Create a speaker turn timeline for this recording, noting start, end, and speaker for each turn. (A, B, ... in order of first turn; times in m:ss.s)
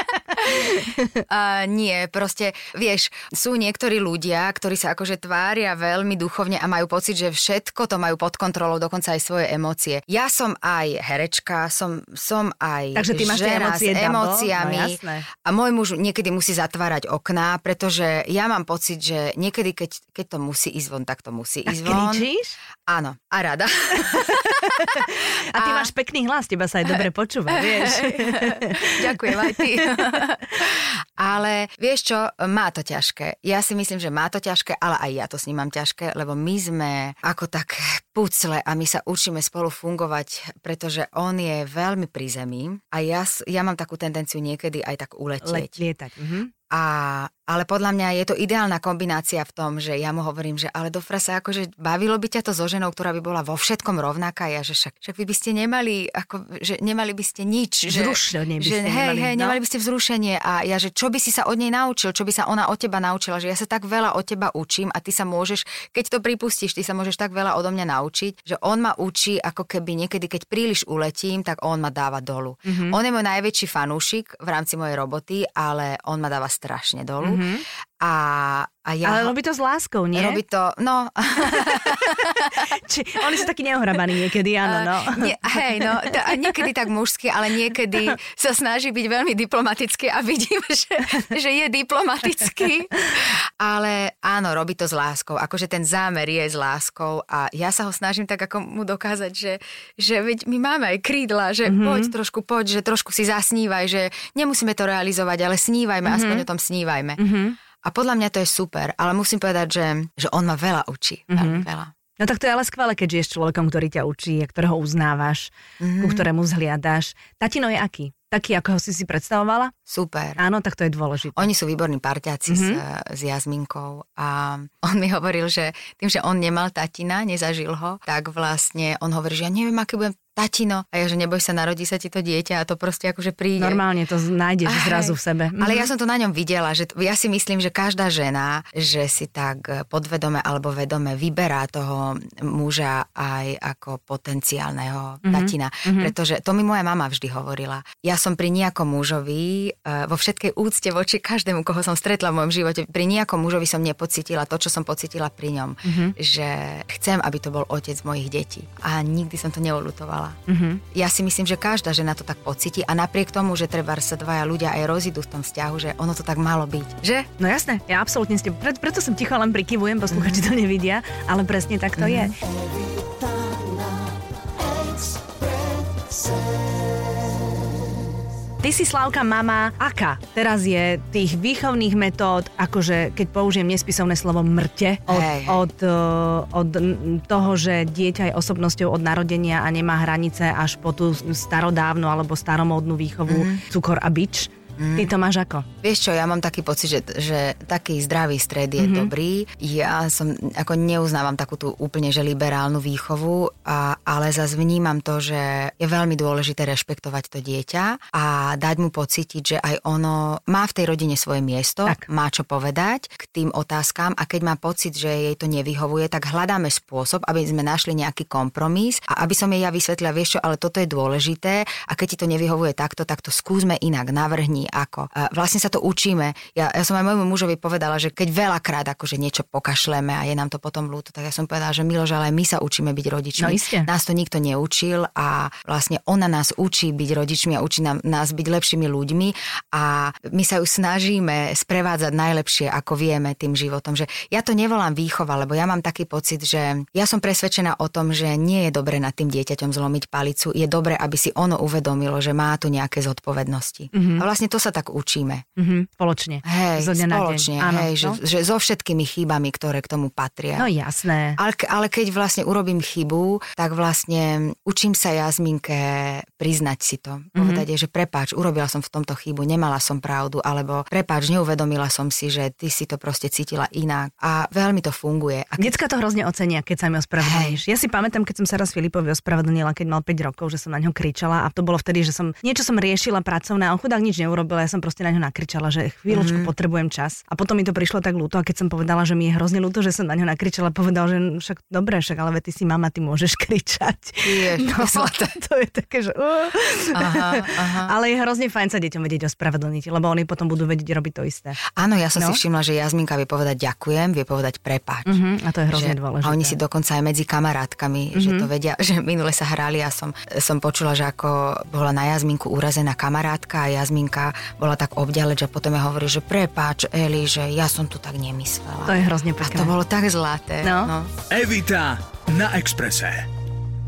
0:00.3-0:01.2 A
0:01.3-0:22.3 B
0:12.9-0:15.3 A
0:21.7-0:22.5 A
0:22.9-0:25.9 B
0:24.1-0:30.2 A
0:26.9-0:45.8 B
0:45.4-0:46.5 A
0:46.7-1:17.4 B
0:57.9-0:59.6 A
1:12.6-1:13.0 A
1:17.2-1:17.6 A
1:18.0-1:19.3 B
1:19.0-1:20.4 A
1:20.1-1:22.5 B
1:21.5-1:26.5 A
1:24.6-1:47.2 B
1:41.6-1:42.1 A
1:46.0-1:46.4 A
1:47.2-1:47.6 A
1:47.8-1:51.9 B
1:51.3-1:51.7 A
1:52.2-1:59.7 A
1:55.8-1:56.3 B
1:59.9-2:00.4 B
2:00.4-2:01.5 A
2:01.4-2:13.8 B
2:02.5-2:02.8 A
2:13.6-2:15.9 A
2:14.6-2:40.4 B
2:25.2-2:26.1 A
2:35.8-2:36.1 A
2:40.5-2:40.8 A
2:40.9-2:47.3 B
2:47.4-2:52.4 A
2:50.1-2:50.5 B
2:52.0-2:52.3 B
2:58.6-3:15.6 A
3:05.1-3:05.6 B
3:13.3-3:13.6 B
3:14.8-3:15.1 B
3:15.8-4:15.4 B
3:18.8-3:19.1 A
3:53.4-3:53.9 A
4:13.9-4:14.2 A
4:15.6-4:18.2 A
4:16.4-4:20.7 B
4:20.6-4:21.4 A
4:21.4-4:35.8 B
4:27.3-4:27.6 A
4:35.6-5:01.6 A
4:37.2-4:37.6 B
4:46.1-4:46.5 B
4:54.2-4:55.3 B
4:56.9-4:57.9 B
5:01.8-5:05.2 B
5:05.0-5:06.6 A
5:05.7-5:21.1 B
5:08.1-5:08.5 A
5:18.8-5:19.7 A
5:20.6-5:20.9 A
5:21.3-5:23.2 C